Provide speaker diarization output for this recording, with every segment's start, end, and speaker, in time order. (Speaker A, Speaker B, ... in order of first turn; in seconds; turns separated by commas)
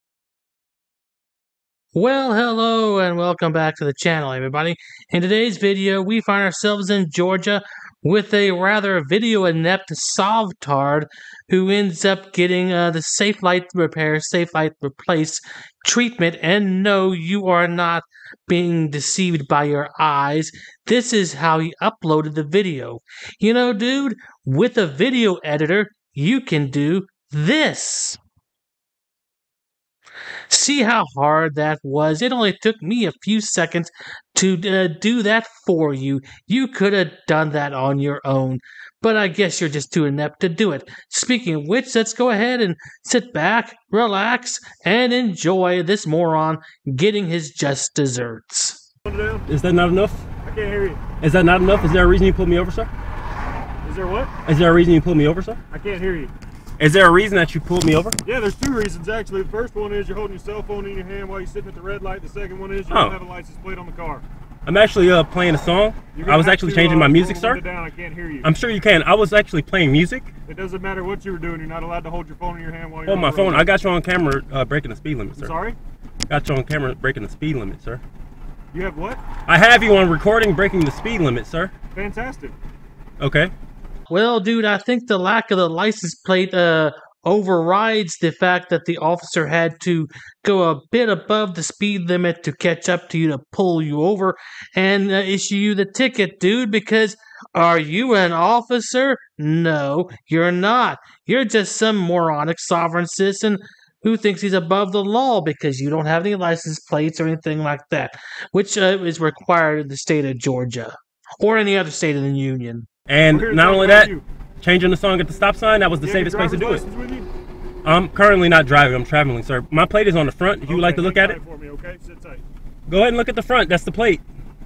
Speaker A: 1.9-28.2, Speaker A: 30.5-48.8, Speaker B: 49.1-49.5, Speaker C: 49.5-50.3, Speaker B: 50.5-51.1, Speaker C: 51.2-52.9, Speaker B: 53.8-54.3, Speaker C: 54.5-55.6, Speaker B: 55.7-56.3, Speaker C: 56.8-58.2, Speaker B: 58.2-64.2, Speaker C: 62.9-63.2, Speaker C: 64.7-67.6, Speaker B: 66.1-68.5, Speaker C: 68.4-70.3, Speaker B: 70.5-73.7, Speaker C: 73.1-75.5, Speaker B: 75.4-75.8, Speaker C: 76.3-78.0, Speaker B: 78.7-79.2, Speaker C: 79.5-81.7, Speaker B: 82.0-82.6, Speaker C: 83.2-83.5, Speaker A: 84.1-112.9, Speaker C: 113.1-116.8, Speaker B: 113.3-114.2, Speaker B: 116.0-117.3, Speaker C: 117.8-121.4, Speaker B: 120.7-122.4, Speaker C: 122.9-124.2